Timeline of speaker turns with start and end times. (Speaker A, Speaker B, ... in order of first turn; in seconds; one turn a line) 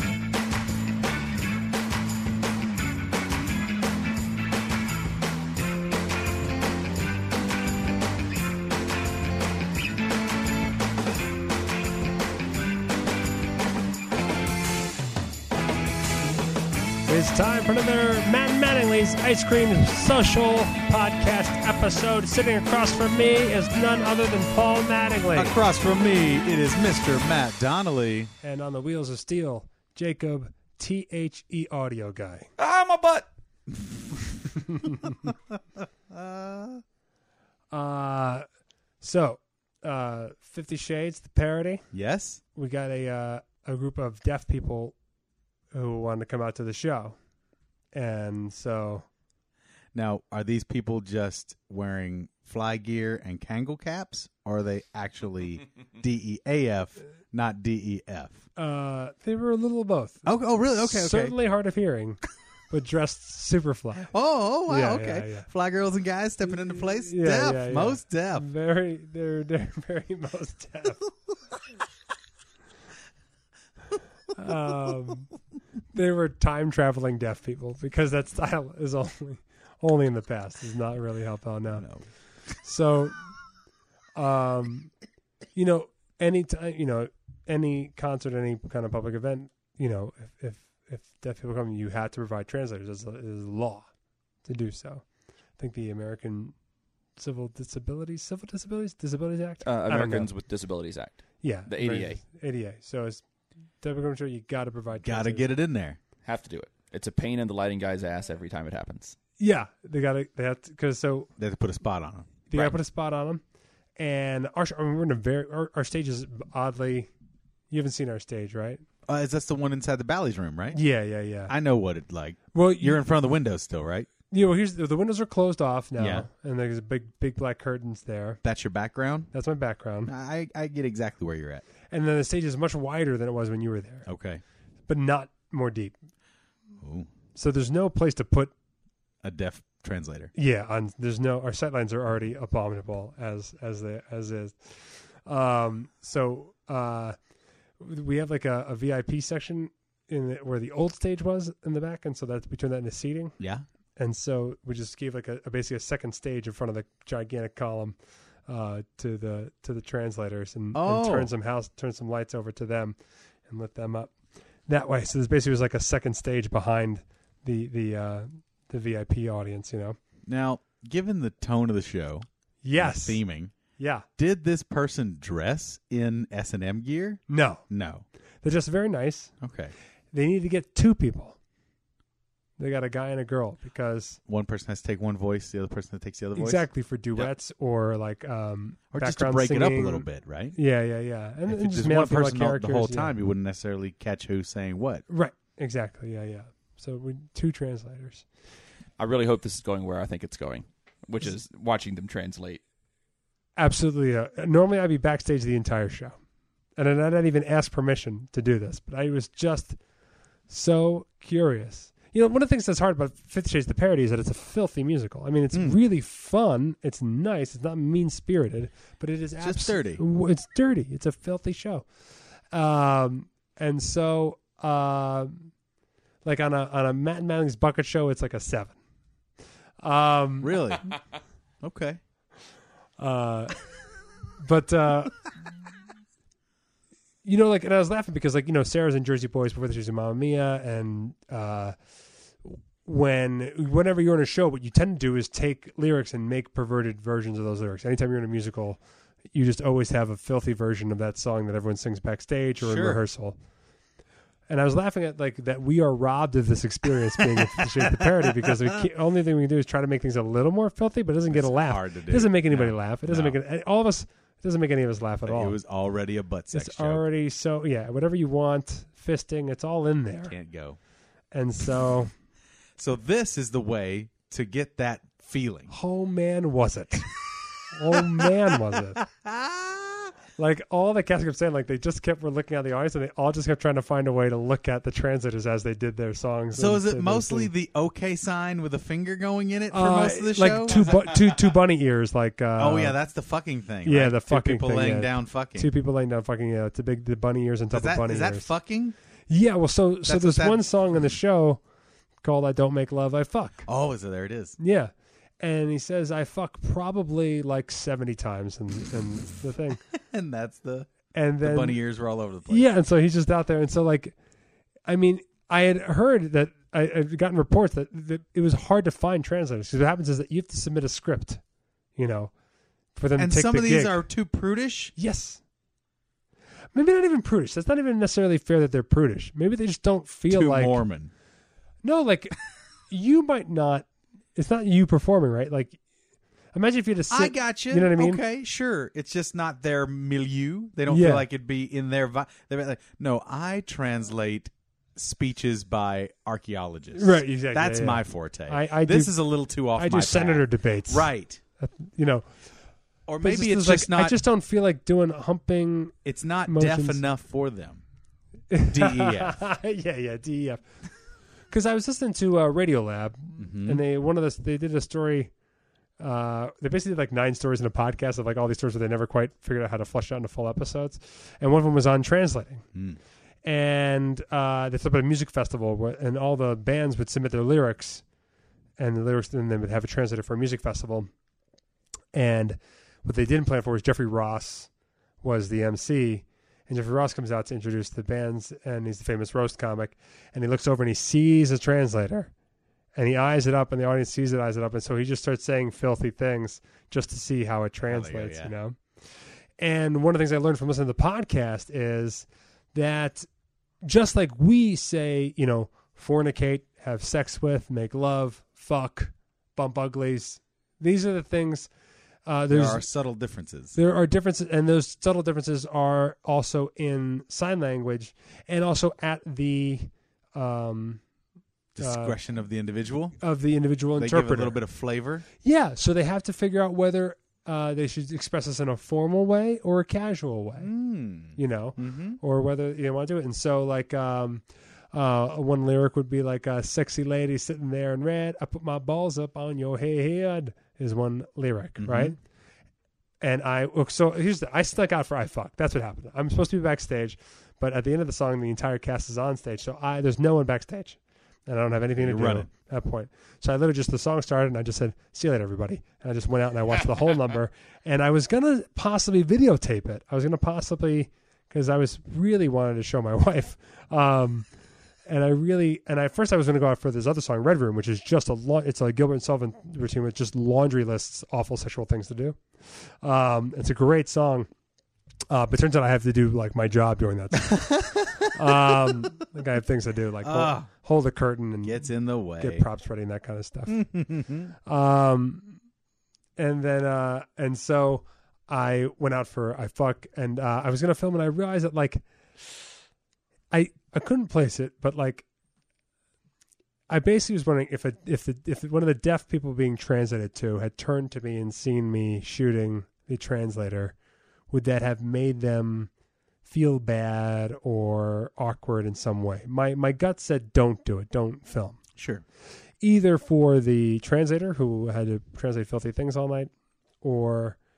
Speaker A: 17.1-25.6
Speaker B: 25.4-28.3
Speaker A: 28.4-32.5
Speaker C: 32.6-33.3
Speaker A: 34.8-35.1
Speaker B: 35.1-35.6
Speaker B: 36.1-36.8
Speaker A: 37.7-38.5
Speaker A: 39.0-41.8
Speaker B: 41.9-42.4
Speaker A: 42.5-45.0
Speaker A: 45.7-47.2
Speaker A: 47.9-49.1
Speaker B: 49.9-58.4
Speaker A: 58.6-60.3
Speaker B: 60.2-61.4
Speaker A: 60.8-64.1
Speaker B: 64.1-68.5
Speaker A: 64.7-65.5
Speaker A: 66.8-71.0
Speaker A: 74.4-75.3
Speaker A: 75.9-81.9
Speaker B: 81.8-82.0
Speaker A: 82.6-83.2
Speaker A: 84.2-84.9
Speaker A: 85.5-93.9
Speaker A: 94.5-95.0
Speaker A: 95.6-96.5
Speaker A: 97.2-100.3
Speaker C: 99.6-102.2
Speaker A: 101.4-103.2
Speaker A: 103.8-105.5
Speaker B: 105.0-106.0
Speaker C: 106.2-109.2
Speaker A: 109.4-111.3
Speaker B: 111.4-112.4
Speaker A: 112.5-113.4
Speaker A: 114.0-117.1
Speaker A: 117.7-118.8
Speaker B: 119.1-120.8
Speaker A: 120.7-121.5
Speaker B: 121.5-124.1
Speaker A: 122.5-123.0
Speaker A: 124.3-128.4
Speaker B: 126.0-126.3
Speaker B: 128.4-129.3
Speaker A: 129.3-130.1
Speaker B: 130.1-131.7
Speaker A: 131.9-134.1
Speaker B: 134.1-134.4
Speaker A: 134.9-136.0
Speaker B: 136.8-137.1
Speaker A: 137.3-138.5
Speaker B: 139.2-140.3
Speaker A: 140.3-147.2
Speaker A: 147.8-153.4
Speaker B: 153.4-153.6
Speaker A: 154.0-163.0
Speaker B: 160.7-161.3
Speaker A: 163.5-164.1
Speaker A: 164.7-170.0
Speaker B: 170.3-172.3
Speaker A: 172.6-173.2
Speaker B: 172.8-173.5
Speaker A: 173.8-174.1
Speaker B: 174.2-178.1
Speaker A: 177.3-177.6
Speaker A: 178.4-179.3
Speaker B: 179.4-179.7
Speaker A: 180.1-181.4
Speaker A: 182.6-184.2
Speaker B: 184.3-187.3
Speaker A: 186.3-193.1
Speaker B: 188.9-190.6
Speaker B: 191.5-195.1
Speaker A: 195.1-198.2
Speaker C: 199.0-202.6
Speaker A: 203.6-206.2
Speaker A: 206.8-209.8
Speaker A: 210.5-221.9
Speaker B: 215.5-215.8
Speaker B: 219.4-220.0
Speaker A: 222.5-225.5
Speaker A: 226.2-228.8
Speaker A: 229.8-230.6
Speaker B: 230.4-231.0
Speaker B: 231.6-232.0
Speaker A: 233.0-233.7
Speaker A: 234.4-235.2
Speaker A: 237.2-241.8
Speaker A: 242.4-248.8
Speaker A: 249.3-253.4
Speaker B: 252.6-253.0
Speaker A: 254.5-265.6
Speaker B: 261.3-263.4
Speaker B: 265.2-267.0
Speaker A: 266.5-270.3
Speaker B: 270.3-270.8
Speaker A: 271.3-272.1
Speaker B: 272.8-275.7
Speaker A: 275.7-277.2
Speaker A: 277.7-279.0
Speaker B: 277.9-278.3
Speaker B: 279.0-280.1
Speaker A: 280.4-287.5
Speaker B: 286.6-291.3
Speaker A: 289.7-293.0
Speaker B: 292.6-295.7
Speaker A: 293.9-298.5
Speaker B: 297.7-298.9
Speaker A: 299.3-301.6
Speaker B: 300.1-300.6
Speaker A: 302.2-303.7
Speaker B: 303.6-304.6
Speaker A: 304.6-309.8
Speaker B: 309.9-312.7
Speaker A: 311.1-311.8
Speaker A: 312.5-314.2
Speaker A: 314.9-321.4
Speaker A: 322.0-322.3
Speaker A: 322.9-324.0
Speaker B: 323.2-324.9
Speaker A: 325.0-325.4
Speaker A: 326.8-330.8
Speaker B: 330.3-331.1
Speaker A: 331.8-332.4
Speaker A: 332.9-335.8
Speaker A: 336.5-338.2
Speaker B: 337.1-351.4
Speaker A: 340.9-341.3
Speaker A: 346.9-349.1
Speaker A: 349.8-352.3
Speaker B: 353.1-354.2
Speaker A: 353.2-355.9
Speaker B: 356.1-357.8
Speaker A: 356.5-357.0
Speaker A: 358.5-360.6
Speaker B: 358.7-359.4
Speaker A: 361.5-365.3
Speaker B: 363.4-363.8
Speaker A: 366.0-372.6
Speaker B: 372.7-373.0
Speaker A: 373.4-378.0
Speaker A: 378.8-381.1
Speaker A: 382.1-384.7
Speaker A: 385.2-392.3
Speaker A: 392.9-398.8
Speaker B: 397.9-398.5
Speaker A: 399.6-403.3
Speaker A: 403.8-411.7
Speaker A: 412.3-412.9
Speaker B: 412.5-413.8
Speaker A: 413.8-421.0
Speaker B: 421.8-423.2
Speaker A: 421.8-422.2
Speaker A: 423.2-424.6
Speaker B: 424.0-425.2
Speaker A: 425.4-430.7
Speaker B: 430.6-432.2
Speaker A: 431.4-442.2
Speaker B: 441.8-442.1
Speaker A: 443.2-464.5
Speaker B: 452.0-452.5
Speaker A: 465.1-472.4
Speaker A: 473.0-474.5
Speaker A: 475.3-481.8
Speaker B: 477.6-478.2
Speaker B: 480.2-480.7
Speaker B: 481.6-482.6
Speaker A: 482.4-483.8
Speaker B: 483.7-484.5
Speaker A: 484.7-485.6
Speaker A: 486.4-492.0
Speaker A: 493.5-495.2
Speaker A: 496.9-504.0
Speaker A: 504.5-505.9
Speaker A: 506.4-511.8
Speaker B: 512.0-512.2
Speaker A: 512.8-517.6